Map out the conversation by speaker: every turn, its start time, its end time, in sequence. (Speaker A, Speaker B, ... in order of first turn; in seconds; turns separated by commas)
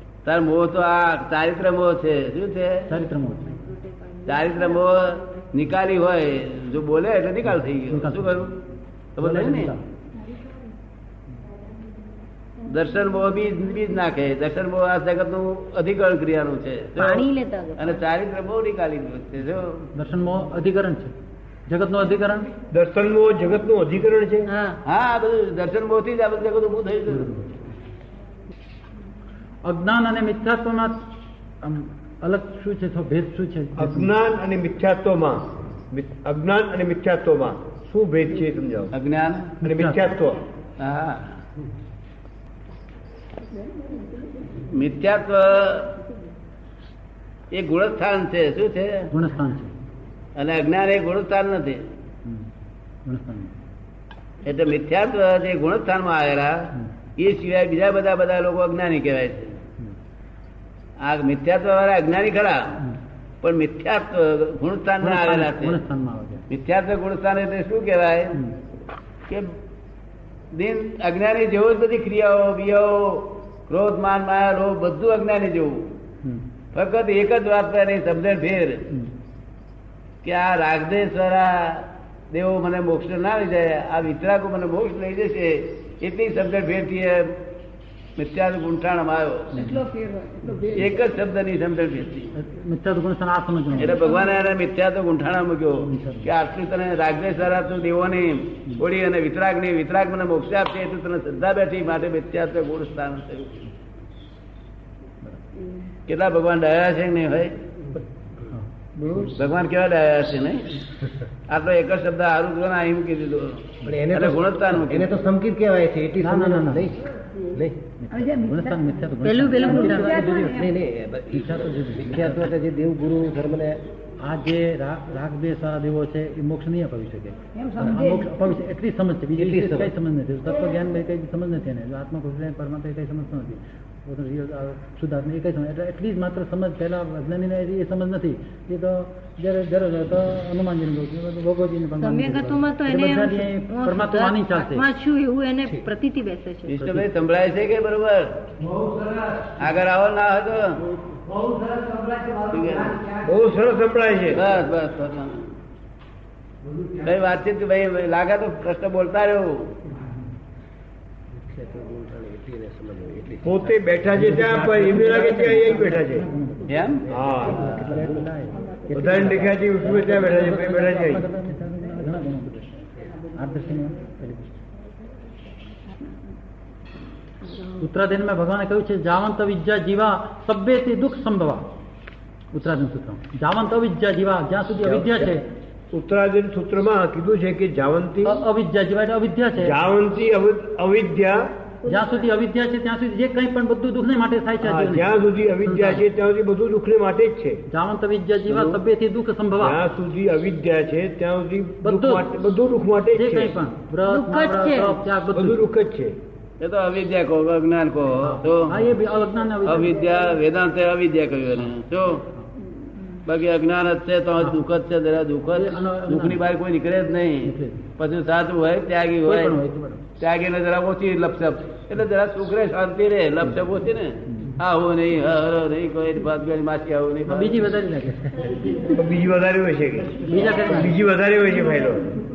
Speaker A: 0.2-2.9, Speaker B: 2.9-3.6, Speaker A: 4.2-8.5, Speaker B: 7.7-8.4, Speaker A: 9.2-9.7, Speaker B: 9.2-9.8, Speaker A: 12.7-17.3, Speaker C: 17.0-18.0, Speaker A: 17.8-19.8, Speaker B: 19.9-21.1, Speaker B: 21.7-22.5, Speaker D: 22.7-24.5, Speaker C: 24.5-24.8, Speaker A: 24.9-27.4, Speaker B: 29.6-31.0, Speaker B: 31.6-34.1, Speaker D: 33.8-38.9, Speaker A: 38.9-39.6, Speaker D: 39.6-40.4, Speaker B: 39.6-40.0, Speaker A: 40.8-41.4, Speaker A: 44.7-46.0, Speaker A: 47.5-49.1, Speaker B: 49.1-49.7, Speaker A: 50.4-51.8, Speaker B: 53.1-53.5, Speaker A: 54.4-59.6, Speaker A: 61.0-62.8, Speaker A: 63.4-65.8, Speaker B: 65.0-66.4, Speaker A: 66.5-68.4, Speaker A: 70.5-75.9, Speaker A: 76.7-78.8, Speaker A: 80.2-87.4, Speaker A: 88.2-89.7, Speaker B: 89.5-89.9, Speaker C: 89.9-90.6, Speaker A: 90.7-92.3, Speaker B: 92.4-94.1, Speaker A: 93.7-103.7, Speaker B: 95.8-96.3, Speaker A: 106.1-107.5, Speaker B: 108.5-109.4, Speaker A: 109.3-110.7, Speaker A: 111.5-115.3, Speaker E: 113.8-117.8, Speaker B: 116.2-116.9, Speaker B: 118.0-120.7, Speaker C: 118.2-118.6, Speaker C: 119.2-120.5, Speaker E: 119.8-123.8, Speaker B: 121.3-122.5, Speaker B: 124.2-144.8, Speaker E: 129.4-129.9, Speaker C: 142.0-147.0, Speaker A: 146.7-148.4, Speaker E: 148.6-149.6, Speaker A: 149.6-150.8, Speaker E: 151.1-153.2, Speaker A: 152.5-153.0, Speaker D: 153.2-154.4, Speaker A: 154.3-155.5, Speaker A: 157.0-159.7, Speaker E: 161.4-163.7, Speaker D: 163.4-166.3, Speaker B: 164.1-166.8, Speaker A: 166.7-167.1, Speaker D: 167.1-167.7, Speaker E: 167.3-168.2, Speaker B: 167.4-172.7, Speaker D: 168.9-171.3, Speaker B: 173.3-174.5, Speaker B: 177.7-181.7, Speaker B: 182.5-185.5, Speaker D: 184.8-185.3, Speaker D: 185.9-188.4, Speaker B: 188.2-189.8, Speaker D: 189.6-191.5, Speaker B: 191.8-196.1, Speaker D: 194.6-197.6, Speaker B: 197.7-199.8, Speaker A: 198.5-198.8, Speaker D: 199.6-203.5, Speaker B: 201.8-202.3, Speaker B: 203.1-205.6, Speaker C: 204.1-205.0, Speaker D: 205.3-206.1, Speaker A: 206.6-208.8, Speaker B: 208.2-210.0, Speaker A: 209.7-212.2, Speaker A: 213.1-219.6, Speaker B: 215.5-216.4, Speaker B: 217.4-217.9, Speaker B: 219.2-220.1, Speaker A: 220.2-227.7, Speaker B: 227.3-228.5, Speaker D: 228.9-232.1, Speaker B: 230.2-230.9